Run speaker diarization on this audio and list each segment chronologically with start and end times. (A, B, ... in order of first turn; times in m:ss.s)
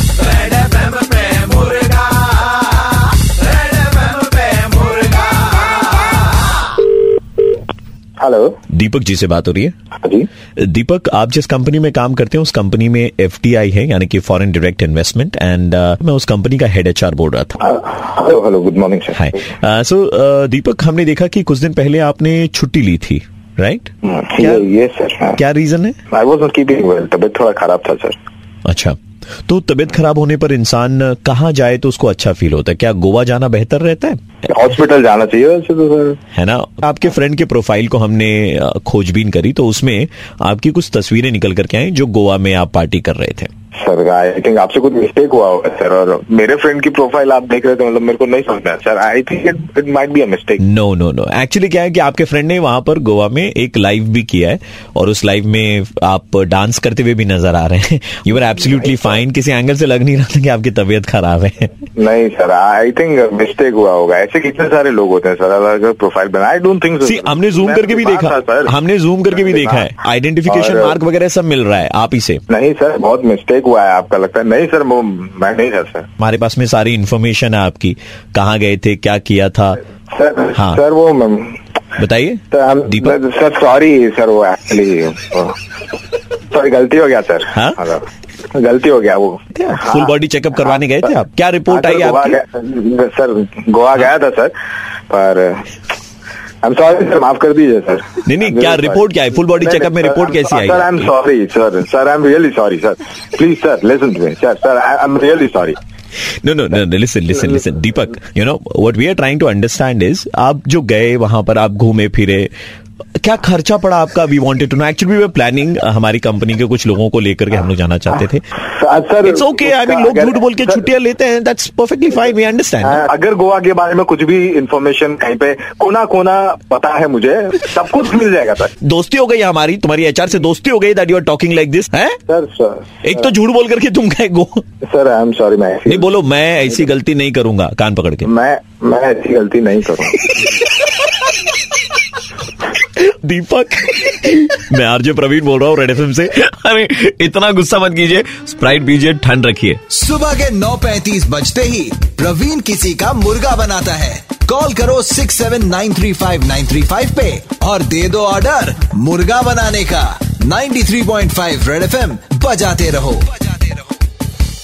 0:00.3-0:02.0 A
0:03.7-0:04.9 A
0:08.2-0:08.6 B
0:08.7-0:09.7 A
0:10.0-0:10.3 B
0:10.6-0:17.6 A
0:17.6-0:19.4 B
0:19.1-0:24.7 A
0:24.0-0:25.4 B
0:25.4-0:26.0 A
0:26.1-0:28.2 B
0:28.6-0:34.2 A
0:34.4-0:36.2 B
0:36.3-0:43.5 A
0:43.7-0:50.6 B
0:50.6-1:01.7 A
0:58.7-0:59.2 B
1:02.0-1:08.7 B
1:07.0-1:12.4 A
1:09.3-1:09.8 B
1:10.5-1:11.0 B
1:12.5-1:16.1 B
1:16.2-1:19.8 A
1:20.1-1:21.6 B
1:20.5-1:20.8 A
1:22.0-1:23.1 A
1:22.5-1:25.6 B
1:26.5-1:30.0 B
1:29.5-1:32.4 A
1:31.7-1:34.5 B
1:35.1-1:35.7 B
1:36.6-1:39.0 B
1:38.2-1:41.0 A
1:39.6-1:45.8 B
1:46.4-1:52.5 A
1:53.2-1:58.4 A
1:58.7-2:00.8 B
1:59.2-2:03.0 A
2:02.8-2:08.7 B
2:08.8-2:12.2 A
2:12.3-2:13.2 B
2:13.0-2:14.6 A
2:14.8-2:16.1 B
2:15.8-2:18.3 A
2:18.2-2:20.2 B
2:23.0-2:29.8 A
2:29.9-2:43.3 C